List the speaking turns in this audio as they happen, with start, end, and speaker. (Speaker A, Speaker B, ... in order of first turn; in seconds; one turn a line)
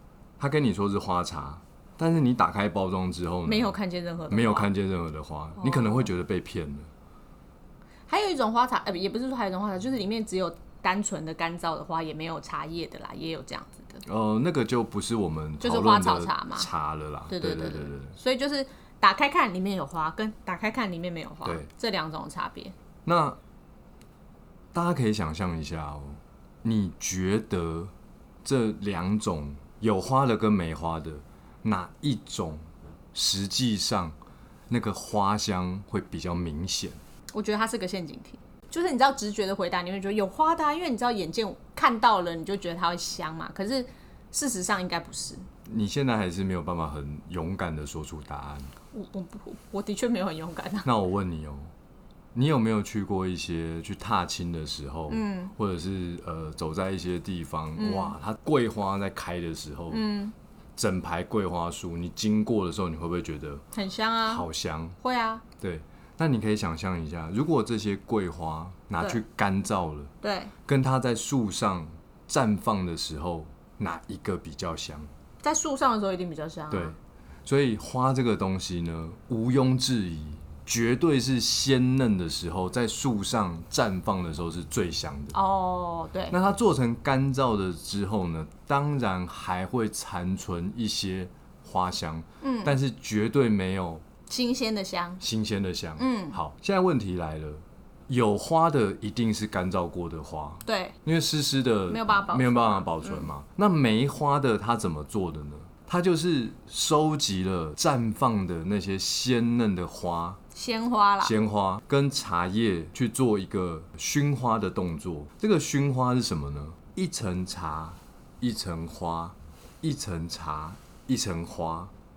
Speaker A: 0.4-3.8
Speaker B: 3.5-4.7
Speaker A: 4.3-6.9
Speaker B: 5.6-6.1
Speaker B: 8.1-14.0
Speaker A: 14.0-18.1
Speaker B: 15.6-16.7
Speaker B: 17.3-22.7
Speaker A: 23.0-23.4
Speaker A: 24.7-27.9
Speaker A: 28.4-32.6
Speaker A: 33.1-34.1
Speaker A: 34.7-37.0
Speaker B: 37.3-45.4
Speaker A: 45.6-48.7
Speaker B: 48.9-50.9
Speaker A: 50.8-51.7
Speaker A: 52.3-60.1
Speaker B: 55.1-55.5
Speaker B: 57.8-58.1
Speaker B: 59.9-60.3
Speaker A: 60.8-63.6
Speaker B: 63.7-64.4
Speaker A: 64.2-65.0
Speaker B: 65.0-65.4
Speaker A: 65.6-70.1
Speaker B: 70.2-70.5
Speaker A: 70.7-75.1
Speaker B: 75.4-76.9
Speaker A: 76.7-85.3
Speaker B: 85.3-86.4
Speaker A: 86.3-94.0
Speaker B: 92.4-92.8
Speaker B: 94.3-95.2
Speaker A: 95.2-110.4
Speaker B: 96.0-96.4
Speaker B: 100.7-101.0
Speaker B: 101.9-103.3
Speaker B: 110.5-111.3
Speaker A: 111.2-121.9